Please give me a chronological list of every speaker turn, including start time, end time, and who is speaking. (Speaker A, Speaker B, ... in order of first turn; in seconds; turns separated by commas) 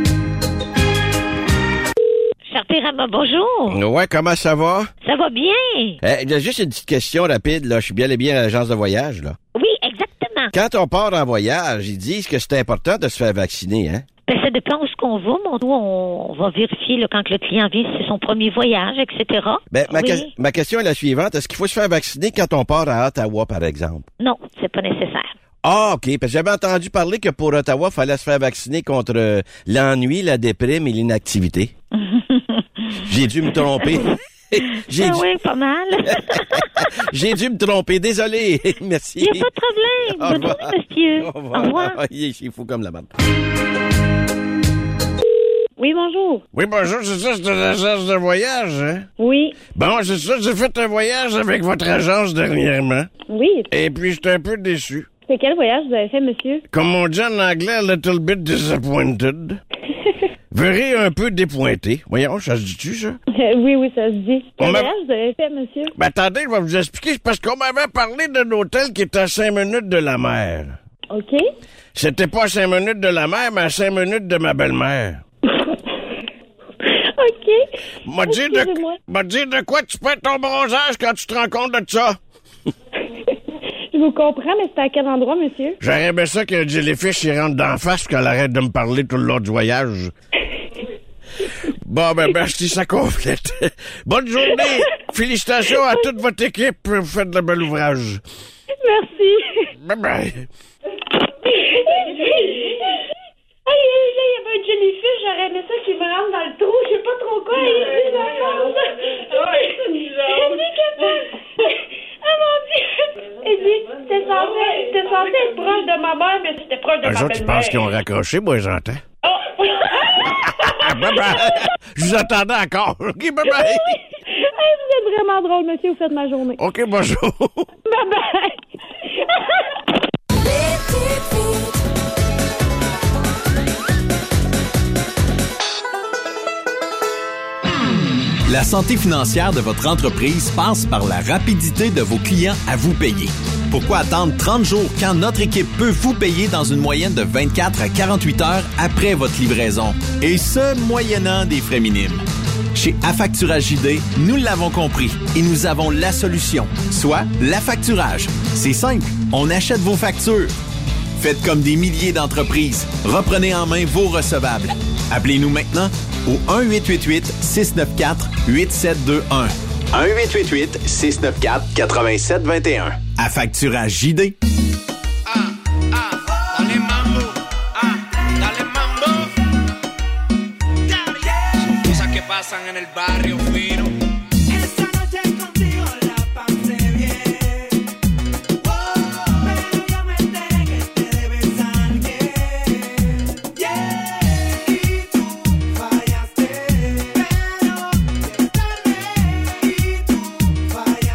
Speaker A: 2.5-3.8, Speaker B: 3.7-4.9, Speaker A: 5.0-6.0, Speaker B: 6.0-9.4, Speaker A: 9.6-10.5, Speaker B: 10.5-14.1, Speaker A: 14.3-20.3, Speaker B: 19.7-24.1, Speaker A: 24.2-25.3, Speaker B: 25.6-31.8, Speaker A: 31.9-32.6, Speaker B: 33.1-35.3, Speaker A: 34.9-36.7, Speaker B: 36.1-39.5, Speaker A: 39.2-42.0, Speaker B: 40.1-43.1, Speaker C: 45.8-46.4, Speaker B: 46.5-49.1, Speaker C: 49.2-49.6, Speaker B: 49.7-53.1, Speaker C: 53.3-53.7, Speaker B: 53.7-55.1, Speaker C: 55.3-56.6, Speaker B: 56.7-59.6, Speaker B: 60.5-63.2, Speaker C: 63.3-65.9, Speaker B: 64.6-64.9, Speaker B: 65.9-70.8, Speaker C: 71.1-71.5, Speaker B: 72.0-75.2, Speaker C: 77.0-77.7, Speaker B: 78.1-82.2, Speaker C: 78.2-79.0, Speaker C: 83.9-85.8, Speaker B: 85.8-90.1, Speaker B: 91.8-98.2, Speaker C: 98.8-99.7, Speaker B: 99.8-100.5, Speaker C: 101.4-103.0, Speaker C: 103.7-111.7, Speaker C: 112.2-117.9, Speaker B: 117.0-119.0, Speaker C: 119.3-121.4, Speaker B: 120.5-124.0, Speaker C: 123.5-126.6, Speaker B: 126.6-127.7, Speaker C: 127.9-128.6, Speaker D: 138.5-152.2, Speaker D: 152.8-160.5, Speaker D: 161.2-174.3, Speaker E: 176.5-177.3, Speaker E: 178.4-179.2, Speaker E: 181.7-183.9, Speaker E: 185.5-187.4, Speaker E: 191.4-192.0